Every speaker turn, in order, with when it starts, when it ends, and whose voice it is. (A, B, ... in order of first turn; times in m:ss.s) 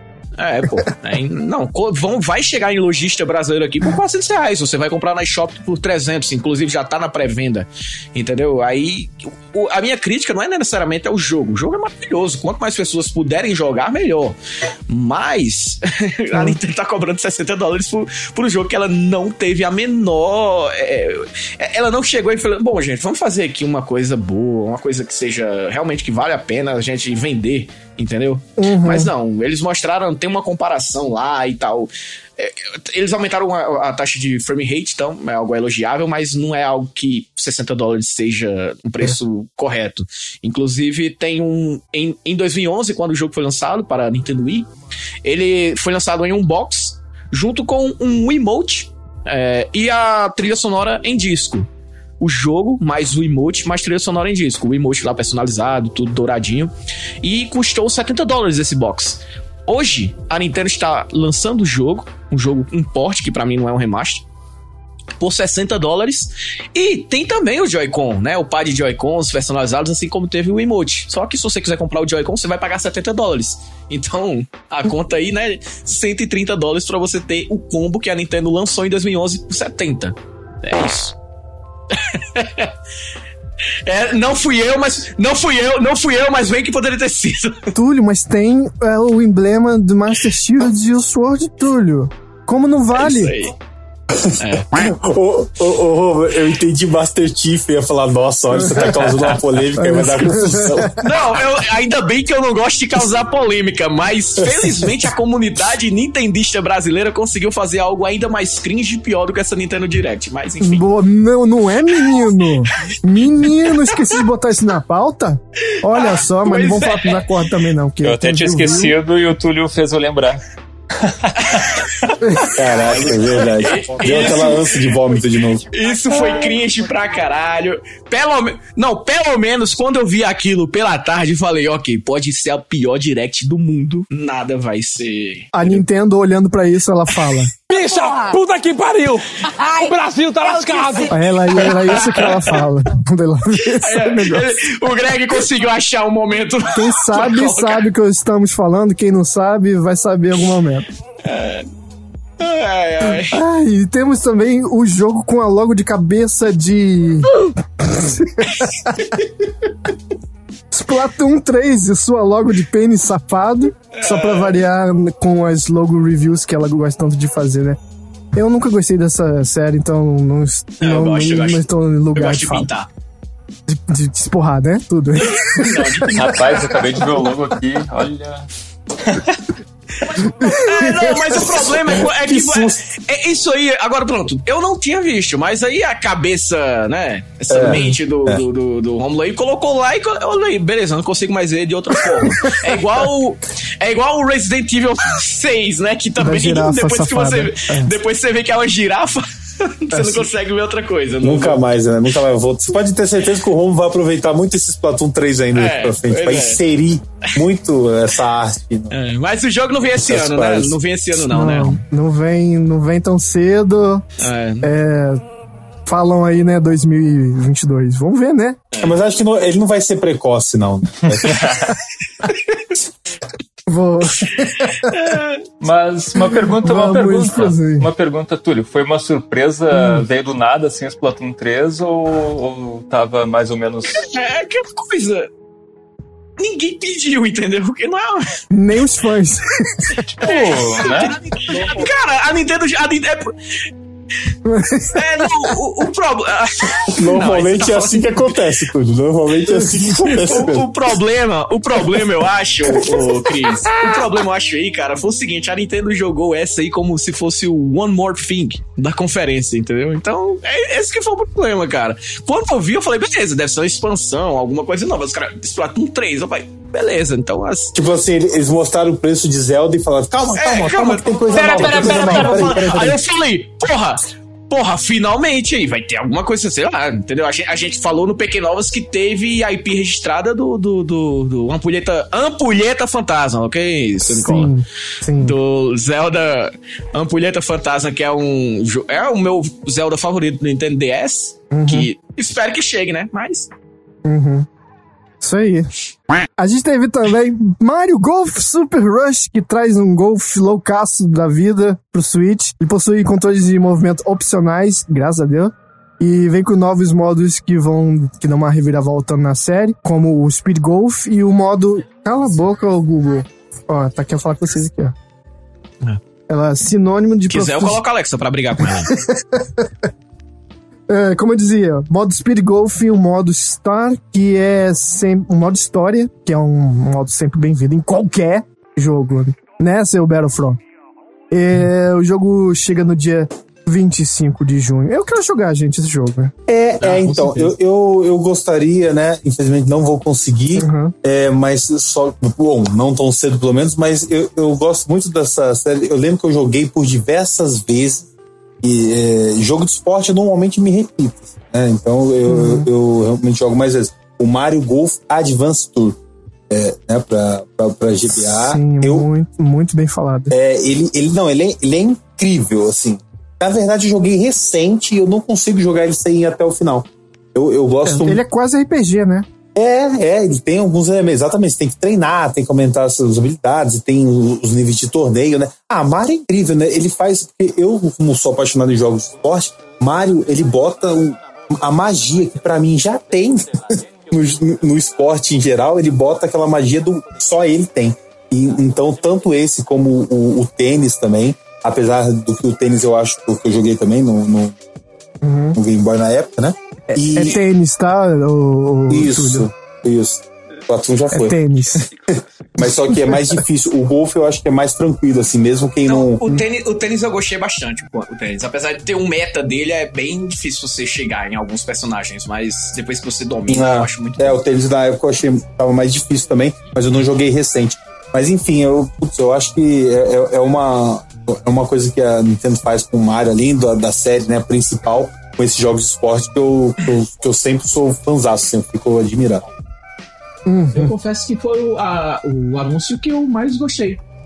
0:00.4-0:14.4 A
0:14.9-0:44.7 A
0:16.3-0:16.6 B
0:28.6-0:29.1 B
0:45.2-0:51.7 A
0:52.2-1:04.2 A
1:05.2-1:21.2 A
1:21.9-1:22.7 A
1:23.8-1:27.7 A
1:27.7-1:33.4 B
1:32.9-1:33.5 A
1:34.1-1:41.1 C
1:34.4-1:34.7 A
1:38.5-1:38.8 B
1:39.8-1:41.0 B
1:41.0-1:50.9 A
1:50.6-1:58.9 B
1:53.7-1:54.2 A
1:55.7-1:57.3 A
1:58.0-2:00.4 D
2:01.0-2:02.1 D
2:01.4-2:04.9 A
2:02.2-2:02.5 B
2:02.5-2:05.7 C
2:05.7-2:15.8 A
2:15.5-2:17.5 B
2:17.6-2:21.8 E
2:21.1-2:24.6 B
2:21.6-2:22.6 A
2:23.6-2:27.9 A
2:26.7-2:30.9 B
2:31.2-2:31.7 A
2:32.4-2:33.4 A
2:33.2-2:39.0 B
2:38.6-2:39.2 A
2:40.7-2:47.8 B
2:43.9-2:44.6 A
2:48.3-2:52.7 B
2:50.8-2:52.9 A
2:53.7-2:56.2 B
2:55.2-2:57.0 A
2:56.1-2:58.5 D
2:59.0-2:59.4 D
3:00.0-3:21.6 A
3:00.3-3:01.4 B
3:02.1-3:02.8 C
3:07.5-3:08.4 C
3:07.7-3:07.9 B
3:16.2-3:17.9 B
3:19.9-3:20.3 B
3:21.2-3:28.9 C
3:25.5-3:26.6 A
3:28.9-3:31.8 A
3:29.9-3:30.8 C
3:31.2-3:35.2 B
3:34.2-3:34.7 A
3:35.8-3:38.6 B
3:38.7-3:39.0 A
3:38.8-3:41.8 C
3:41.1-3:41.7 D
3:42.2-3:42.8 A
3:43.7-3:45.1 B
3:44.2-3:45.5 A
3:45.6-3:54.1 D
3:46.5-3:47.9 B
3:49.7-3:50.0 B
3:53.9-3:55.3 A
3:56.4-3:58.4 A
3:58.5-4:00.0 B
4:00.0-4:01.2 D
4:00.2-4:03.4 A
4:04.4-4:05.5 B
4:04.9-4:08.3 A
4:06.8-4:10.7 C
4:09.5-4:27.7 A
4:12.6-4:14.0 C
4:27.7-4:33.0 C
4:30.2-4:44.5 A
4:31.3-4:32.8 D
4:44.0-4:45.4 B
4:45.2-4:53.5 A
4:51.5-4:51.9 B
4:54.0-4:54.5 B
4:55.2-4:55.7 B
4:56.4-5:15.0 B
5:16.3-5:17.8 B
5:17.3-5:19.0 A
5:18.6-5:19.9 B
5:20.9-5:30.6 B
5:31.3-5:36.3 B
5:36.5-5:48.1 C
5:36.8-5:37.5 A
5:40.5-5:40.9 B
5:48.6-5:56.0 C
5:52.2-5:52.7 B
5:56.5-5:59.0 C
5:58.2-6:00.3 B
6:00.3-6:08.2 C
6:07.8-6:09.3 B
6:09.5-6:34.6 C
6:35.2-6:35.6 B
6:35.5-6:37.4 C
6:36.9-6:39.5 B
6:38.9-6:46.2 C
6:41.1-6:41.8 B
6:45.8-6:54.4 A
6:53.5-7:09.4 C
7:10.4-7:10.9 B
7:10.7-7:14.0 A